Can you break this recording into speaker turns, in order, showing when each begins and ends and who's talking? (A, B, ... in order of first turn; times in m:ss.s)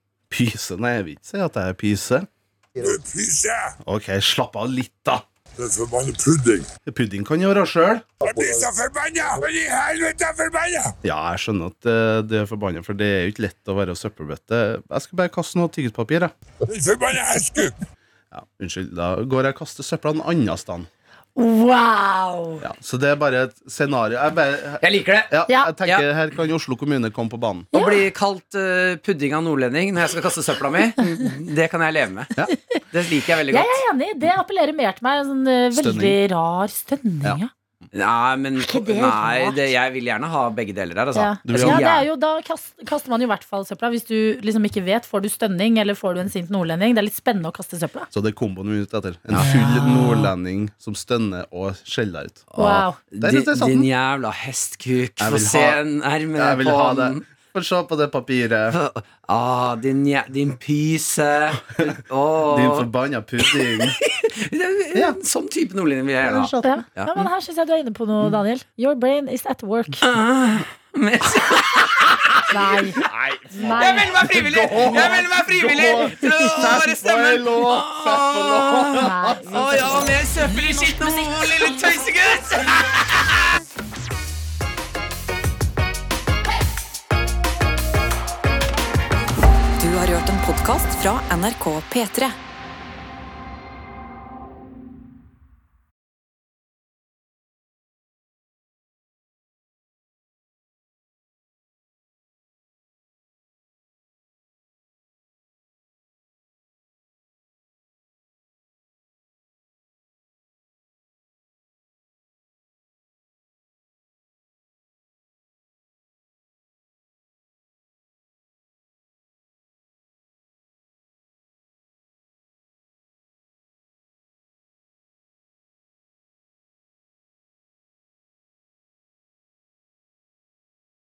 0:00.3-0:02.3 A
0:02.8-0:03.7 B
0:03.8-0:05.2 A
0:05.6-0:06.7 B
0:06.9-0:08.4 A
0:08.2-0:10.9 B
0:11.0-0:16.3 A
0:16.6-0:17.8 B
0:18.3-0:20.9 A
0:21.4-0:22.6 C
0:22.6-0:27.7 A
0:24.8-0:25.3 D
0:27.7-0:28.0 C
0:27.7-0:32.3 D
0:32.9-0:33.8 D
0:33.5-0:37.5 C
0:35.7-0:36.2 A
0:37.9-0:42.1 D
0:38.6-0:39.7 C
0:41.1-0:48.1 C
0:41.4-0:41.9 A
0:48.1-0:52.5 A
0:49.3-0:50.2 D
0:52.5-0:57.2 D
0:52.6-0:53.0 C
0:53.2-0:53.9 A
0:55.2-0:55.8 A
0:56.3-0:58.8 A
0:58.7-1:07.3 D
1:01.8-1:04.0 A
1:06.2-1:10.0 C
1:10.0-1:23.6 D
1:12.5-1:14.2 C
1:13.0-1:19.2 A
1:14.8-1:15.2 C
1:18.9-1:20.2 C
1:29.8-1:32.4 E